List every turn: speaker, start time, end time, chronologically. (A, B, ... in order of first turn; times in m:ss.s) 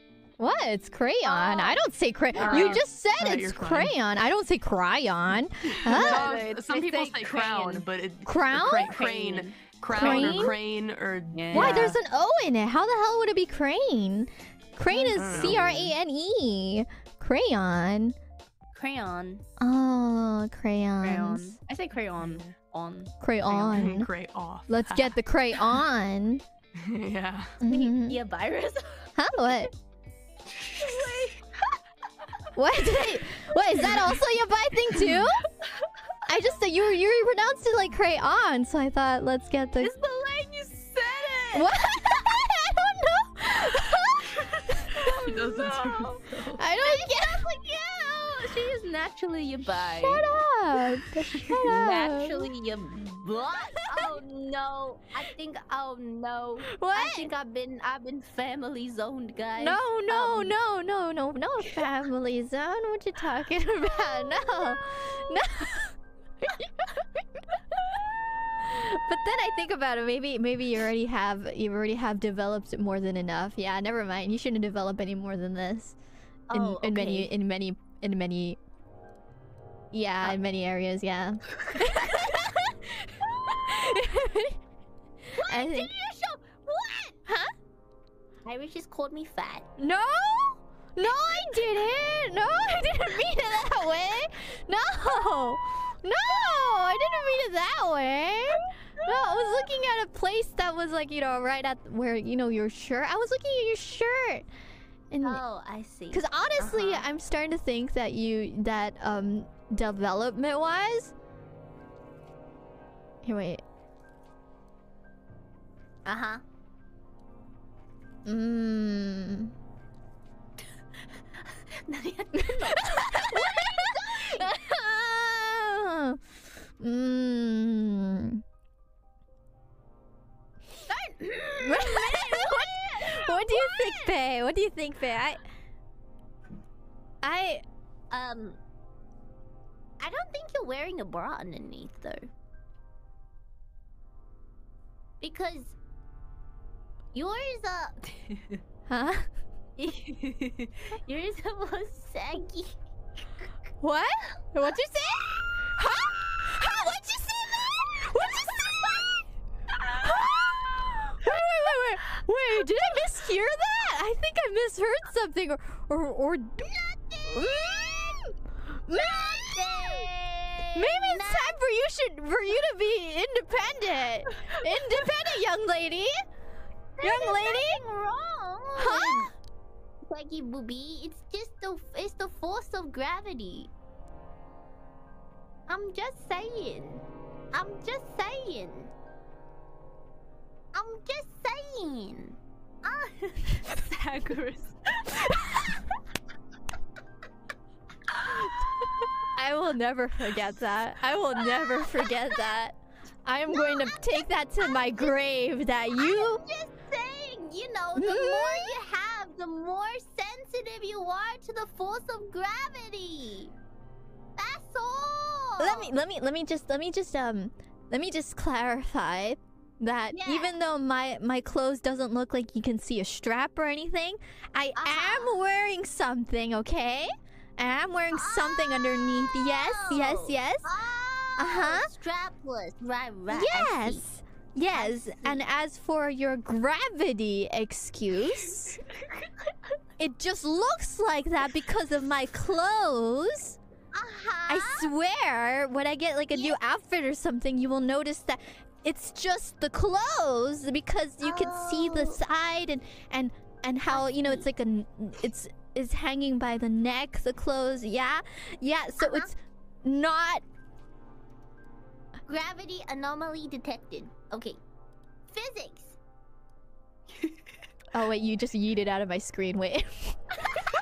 0:00.4-0:06.4 A
0:01.2-0:01.8 B
0:02.3-0:02.8 B
0:02.4-0:04.0 C
0:05.7-0:12.0 C
0:05.9-0:07.9 B
0:08.2-0:08.9 A
0:08.6-0:10.6 B
0:10.0-0:10.6 A
0:11.4-0:12.0 B
0:11.5-0:18.2 A
0:14.9-0:15.8 B
0:15.1-0:15.9 C
0:18.7-0:19.4 B
0:19.6-0:21.6 A
0:21.0-0:23.9 B
0:22.2-0:22.6 C
0:23.2-0:24.1 A
0:23.7-0:25.6 C
0:24.7-0:26.4 A
0:26.8-0:27.6 C
0:27.6-0:28.2 A
0:27.6-0:29.1 B
0:29.2-0:29.7 A
0:30.7-0:31.4 C
0:30.8-0:31.3 B
0:32.5-0:35.4 A
0:36.3-0:39.9 A
0:39.8-0:41.6 B
0:41.5-0:45.2 A
0:45.1-0:46.2 B
0:45.2-0:46.6 C
0:46.6-0:47.4 A
0:46.8-0:50.4 B
0:50.0-0:52.5 A
0:51.4-1:00.5 B
0:56.7-0:57.3 A
0:59.6-1:05.9 A
1:08.6-1:16.0 A
1:16.5-1:17.3 B
1:16.5-1:18.6 A
1:19.9-1:24.6 A
1:25.4-1:27.2 B
1:25.5-1:25.9 A
1:27.3-1:27.5 A
1:28.4-1:29.7 B
1:29.8-1:44.4 A
1:31.0-1:31.5 B
1:45.1-1:45.4 A
1:45.2-1:47.0 B
1:46.1-1:51.1 A
1:53.2-1:53.6 A
1:56.0-1:56.4 B
1:58.2-1:59.5 A
2:01.8-2:04.6 B
2:02.7-2:06.2 A
2:06.8-2:08.4 A
2:10.9-2:14.1 B
2:11.6-2:15.4 A
2:17.2-2:17.6 A
2:18.1-2:18.6 B
2:20.0-2:22.3 B
2:25.2-2:25.8 B
2:27.1-2:28.6 B
2:28.9-2:29.3 A
2:29.8-2:32.7 B
2:33.8-2:39.2 A
2:40.0-2:46.7 A
2:46.6-2:48.2 B
2:47.3-2:50.0 A
2:49.0-2:51.5 B
2:50.7-2:56.2 A
2:57.0-2:59.3 B
2:57.0-2:57.8 A
2:58.8-2:59.3 A
3:00.1-3:03.7 B
3:05.7-3:08.9 B
3:10.7-3:15.2 B
3:19.3-3:26.4 A
3:23.5-3:25.2 B
3:26.0-3:33.5 B
3:28.0-3:28.8 A
3:34.4-3:35.9 B
3:35.6-3:50.7 A
3:40.1-3:40.5 B
3:44.8-3:45.4 B
3:48.1-3:54.0 B
3:51.4-3:51.9 A
3:53.3-3:58.8 A
3:54.7-3:55.4 B
4:00.0-4:03.6 A
4:03.9-4:04.9 B
4:04.5-4:20.4 A
4:11.2-4:12.2 B
4:13.9-4:14.5 B
4:19.0-4:19.3 B
4:22.3-4:24.6 B
4:25.3-4:26.0 B
4:27.9-4:30.2 A